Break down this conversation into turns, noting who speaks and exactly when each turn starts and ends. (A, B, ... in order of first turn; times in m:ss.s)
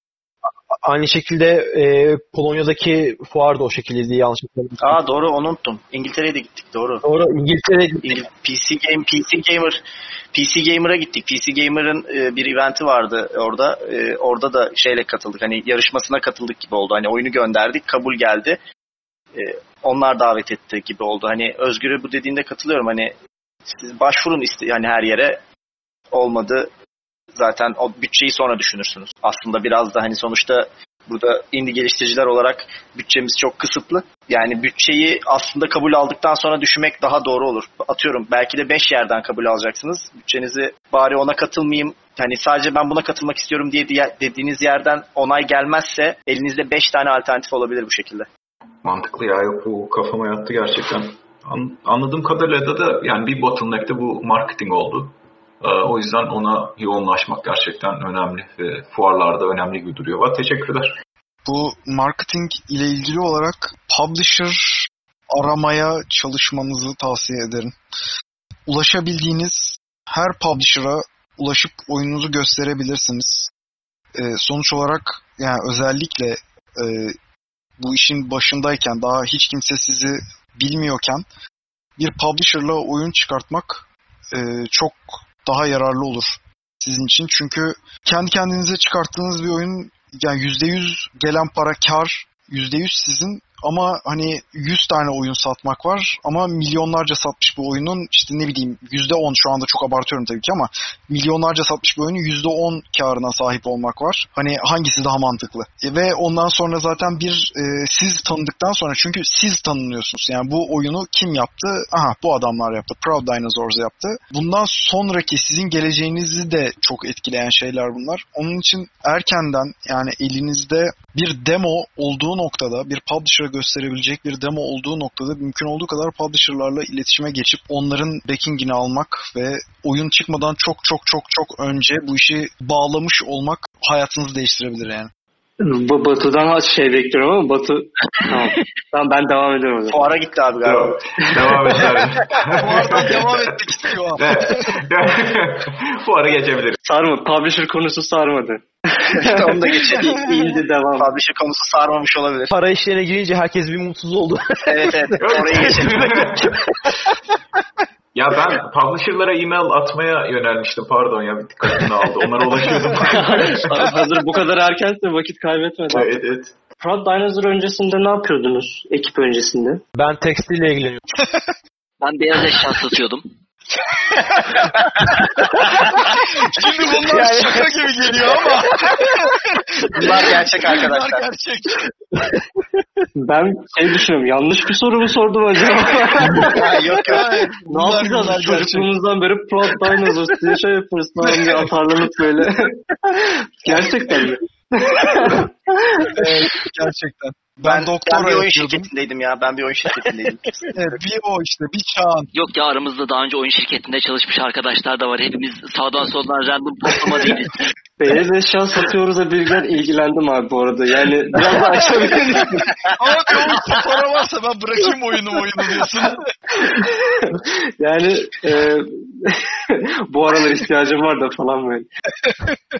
0:00.7-0:05.0 A
0:04.8-0:07.0 B
0:07.0-0:08.2 A
0:08.0-0:18.6 B
0:19.3-0:23.1 B
0:23.7-0:25.4 B
0:26.1-0:26.7 B
0:27.3-0:48.3 B
0:48.8-1:01.0 C
1:01.4-1:07.8 D
1:08.7-1:13.5 D
1:14.2-1:17.1 D
1:17.8-1:21.2 D
1:22.0-2:15.1 D
2:15.6-2:20.0 E
2:19.9-2:21.0 B
2:20.6-2:23.6 C
2:21.5-2:21.8 E
2:22.6-2:24.8 D
2:24.2-2:26.8 C
2:26.8-2:31.1 E
2:29.1-2:30.2 B
2:31.0-2:32.5 B
2:32.5-2:37.2 A
2:34.7-2:36.1 B
2:35.2-2:36.5 C
2:38.1-2:44.0 C
2:43.0-2:46.2 E
2:45.9-2:46.6 C
2:46.8-2:49.8 E
2:50.0-2:51.0 A
2:52.0-2:53.2 F
2:56.1-3:01.9 D
2:57.1-2:57.6 A
2:59.9-3:01.2 B
3:03.2-3:06.7 E
3:06.3-3:08.9 D
3:06.4-3:07.2 B
3:07.6-3:16.2 E
3:16.1-3:18.9 D
3:17.6-3:21.0 B
3:20.7-3:22.3 D
3:22.3-3:27.6 F
3:28.0-3:32.7 E
3:33.0-3:36.3 D
3:36.6-3:41.9 E
3:42.2-3:42.6 D